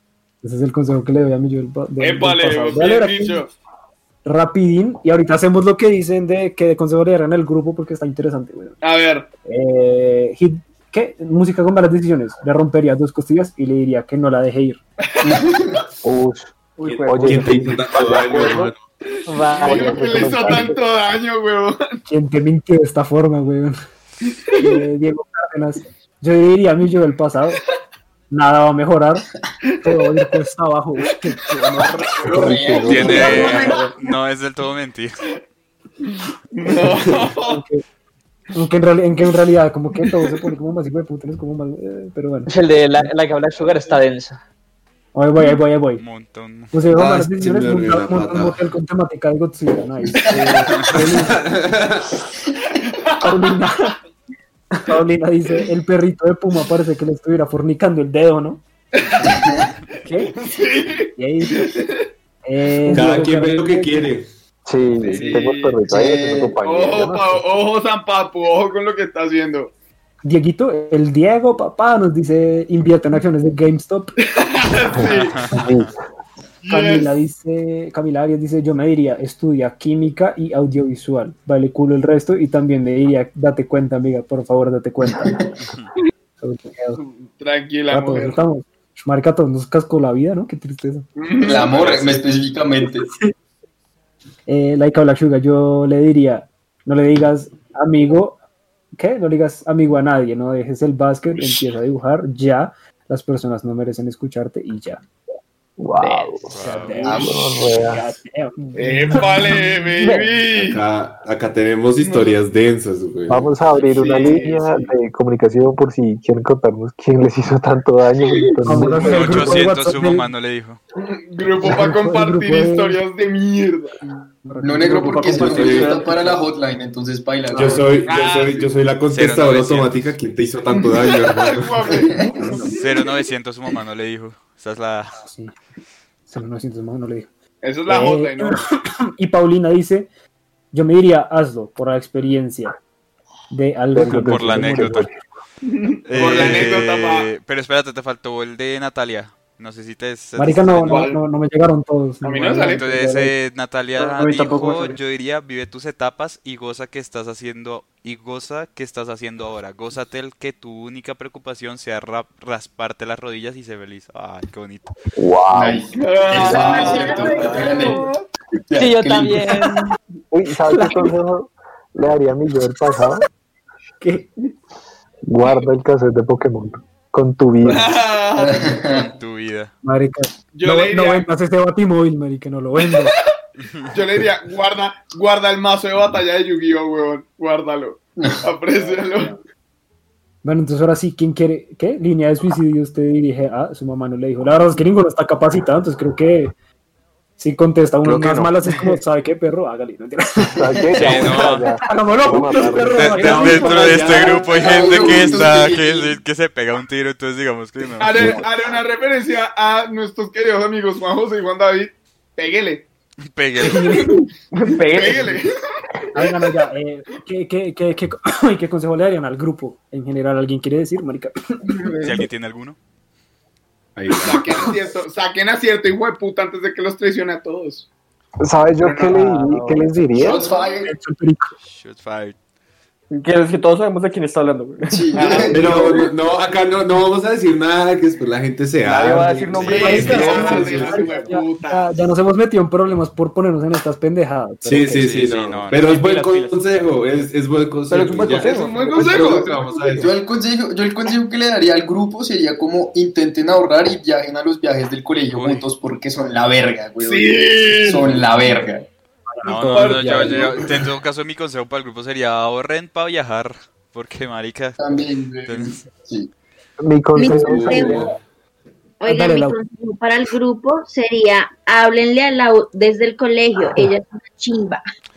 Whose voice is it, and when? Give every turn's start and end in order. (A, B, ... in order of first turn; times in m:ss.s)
0:00.4-0:03.4 A
0:02.0-0:03.5 B
0:04.2-0:08.8 A
0:08.8-0:09.3 B
0:09.5-0:14.8 A
0:15.1-0:15.5 B
0:15.2-0:15.8 C
0:16.0-0:16.5 D
0:16.8-0:18.5 E
0:16.9-0:18.8 F
0:17.0-0:18.7 D
0:19.1-0:22.0 B
0:19.3-0:20.5 G
0:19.6-0:20.8 D
0:22.1-0:23.8 A
0:24.5-0:27.6 A
0:28.3-0:29.3 A
0:29.8-0:33.3 A
0:32.2-0:33.8 C
0:32.3-0:33.6 D
0:32.9-0:35.2 H
0:33.0-0:33.9 I
0:33.1-0:33.4 B
0:36.0-0:37.6 B
0:37.4-0:37.8 A
0:38.5-0:43.1 A
0:42.5-0:44.4 G
0:45.1-0:46.0 A
0:46.0-0:46.7 H
0:46.7-0:51.4 A
0:46.9-0:48.6 F
0:50.9-0:52.1 F
0:52.8-0:53.3 B
0:53.2-0:54.0 A
0:54.8-0:58.6 A
0:59.1-0:59.4 B
0:59.3-0:59.7 C
1:00.0-1:00.4 A
1:00.3-1:02.1 B
1:01.2-1:01.6 A
1:02.4-1:04.1 A
1:02.9-1:04.3 F
1:04.7-1:07.4 D
1:05.1-1:05.8 B
1:05.9-1:06.6 C
1:06.6-1:09.7 B
1:10.2-1:14.1 A
1:14.3-1:15.4 B
1:15.0-1:15.9 H
1:15.0-1:15.9 D
1:16.6-1:17.1 B
1:16.7-1:25.4 A
1:25.1-1:25.5 C
1:26.4-1:27.0 A
1:27.0-1:28.4 B
1:27.9-1:31.1 A
1:31.2-1:32.1 B
1:31.4-1:33.1 C
1:31.7-1:32.2 H
1:33.1-1:33.3 A
1:34.5-1:38.4 A
1:38.9-1:45.0 A
1:45.8-1:46.5 D
1:46.0-1:49.7 A
1:46.5-1:47.1 H
1:47.0-1:47.4 C
1:47.0-1:48.1 D
1:48.8-1:50.8 B
1:50.0-1:50.4 G
1:50.5-1:53.6 F
1:52.0-1:52.4 B
1:53.3-1:59.6 D
1:53.8-1:54.9 B
1:58.6-2:00.3 A
1:59.0-2:00.8 H
2:01.0-2:04.1 B
2:01.6-2:03.0 A
2:04.1-2:05.9 A
2:04.6-2:07.8 C
2:05.2-2:06.1 F
2:07.5-2:12.0 F
2:08.0-2:08.7 B
2:09.1-2:10.2 H
2:11.1-2:13.1 B
2:12.2-2:12.7 A
2:12.7-2:15.2 H
2:15.2-2:15.5 A
2:16.3-2:17.3 A
2:17.6-2:18.6 B
2:17.9-2:20.1 A
2:20.7-2:22.8 A
2:23.5-2:25.1 A
2:23.9-2:25.1 D
2:24.1-2:25.1 H
2:25.6-2:27.3 B
2:26.1-2:31.1 H
2:30.4-2:33.3 A
2:30.9-2:31.2 B
2:32.2-2:32.8 B
2:32.6-2:44.9 H
2:34.2-2:34.9 A
2:45.2-2:45.8 D
2:45.5-2:48.0 C
2:45.9-2:48.2 B
2:46.3-2:48.1 I
2:48.7-2:49.7 C
2:48.8-2:49.9 G
2:50.3-2:53.2 D
2:54.0-2:54.3 A
2:55.3-2:58.0 D
2:57.6-2:58.8 B
2:58.4-2:59.1 C
2:58.9-2:59.7 H
2:59.8-3:03.1 A
3:00.5-3:01.3 B
3:02.8-3:03.2 B
3:03.6-3:03.9 H
3:03.9-3:09.4 B
3:10.4-3:16.5 A
3:17.4-3:20.9 A
3:18.0-3:18.5 D
3:20.5-3:23.2 D
3:21.0-3:21.7 H
3:21.8-3:24.4 A
3:22.9-3:28.4 H
3:23.1-3:25.5 F
3:24.1-3:26.2 C
3:28.0-3:32.9 B
3:33.3-3:34.1 H
3:33.6-3:34.3 A
3:34.5-3:35.4 E
3:34.8-3:35.6 B
3:36.1-3:41.9 A
3:42.0-3:42.8 H
3:44.0-3:44.8 F
3:44.1-3:47.9 B
3:48.4-3:50.4 D
3:48.8-3:49.1 B
3:49.2-3:49.8 G
3:50.1-3:50.9 C
3:50.9-3:51.5 A
3:51.7-3:52.4 H
3:53.1-3:55.4 E
3:54.9-3:56.1 C
3:55.1-3:56.0 B
3:55.5-4:01.2 F
3:58.8-4:00.9 E
3:59.5-4:00.0 H
3:59.6-4:02.0 B
3:59.8-4:05.1 A
4:04.6-4:10.1 F
4:05.0-4:05.8 H
4:05.7-4:06.6 E
4:07.9-4:09.6 E
4:08.4-4:10.1 B
4:10.0-4:18.9 C
4:15.3-4:15.7 H
4:17.0-4:18.2 B
4:19.3-4:20.5 A
4:19.4-4:24.8 H
4:19.7-4:20.6 B
4:24.8-4:26.3 C
4:25.5-4:25.8 H
4:26.8-4:28.1 D
4:27.1-4:28.1 I
4:27.3-4:28.2 F
4:29.0-4:34.8 I
4:29.1-4:29.6 A